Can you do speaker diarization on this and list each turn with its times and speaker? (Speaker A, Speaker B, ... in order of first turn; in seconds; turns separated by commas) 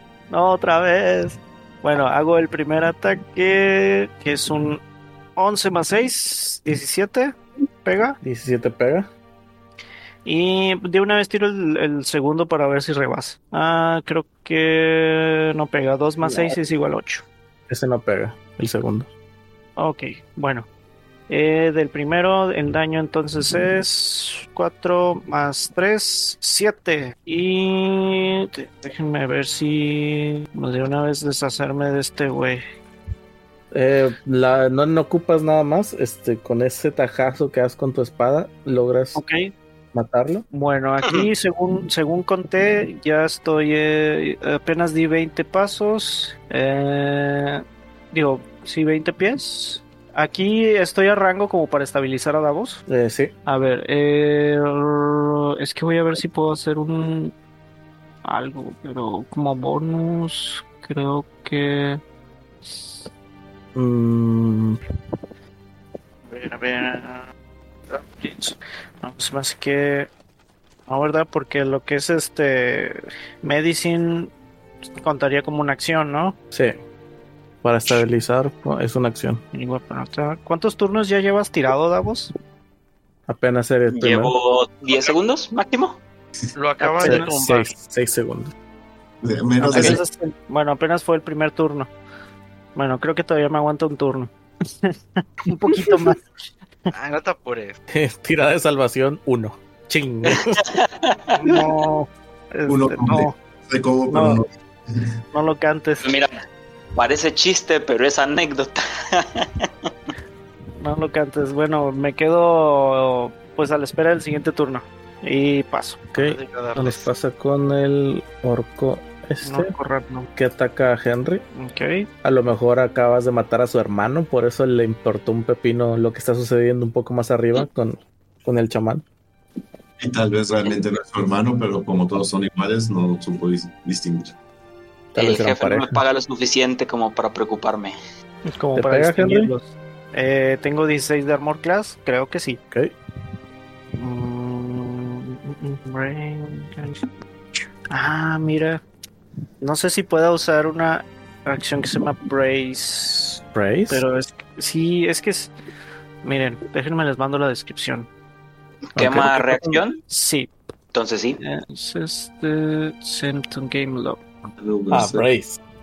Speaker A: 0.3-4.8, Speaker A: 5.3-8.2, Speaker B: 8.2-9.1, Speaker A: 10.2-17.2, Speaker B: 16.2-16.5, Speaker B: 17.7-19.1, Speaker A: 19.8-20.7, Speaker A: 21.3-32.6, Speaker B: 33.7-39.2, Speaker A: 39.1-39.5, Speaker B: 39.9-40.4, Speaker A: 40.5-52.8, Speaker B: 52.9-53.3, Speaker A: 53.5-57.3, Speaker A: 58.2-62.0, Speaker A: 62.6-63.1, Speaker B: 63.7-64.8, Speaker A: 66.3-67.2, Speaker A: 67.9-70.1, Speaker A: 70.9-74.3, Speaker A: 75.0-76.4, Speaker B: 77.6-79.4, Speaker A: 79.5-82.3, Speaker B: 83.3-84.3, Speaker C: 83.9-86.0, Speaker D: 86.5-87.7, Speaker A: 86.8-87.3, Speaker B: 87.0-88.5, Speaker E: 89.2-90.0, Speaker A: 89.7-91.9, Speaker B: 89.7-90.0, Speaker A: 92.7-94.3, Speaker A: 94.8-96.2, Speaker D: 96.9-97.8, Speaker B: 97.9-100.6, Speaker C: 100.3-101.5, Speaker A: 101.4-103.3, Speaker E: 102.7-105.1, Speaker A: 104.1-104.4, Speaker A: 105.3-106.1, Speaker C: 106.0-106.4, Speaker C: 106.9-109.7, Speaker A: 110.8-116.1, Speaker B: 116.1-119.7, Speaker D: 116.2-117.1, Speaker A: 119.4-120.3, Speaker B: 120.3-121.4, Speaker A: 121.5-122.1, Speaker B: 122.2-129.0, Speaker E: 130.0-134.3, Speaker B: 135.1-136.0, Speaker C: 135.1-137.9, Speaker A: 138.5-142.6, Speaker B: 138.7-139.5, Speaker A: 143.9-147.1, Speaker A: 147.9-148.8, Speaker A: 149.6-155.5, Speaker B: 153.5-154.0, Speaker A: 156.2-158.1, Speaker C: 158.9-160.0, Speaker B: 158.9-159.8, Speaker A: 160.1-160.5, Speaker C: 160.9-161.4, Speaker A: 161.4-164.2, Speaker E: 164.6-165.2, Speaker B: 164.9-165.6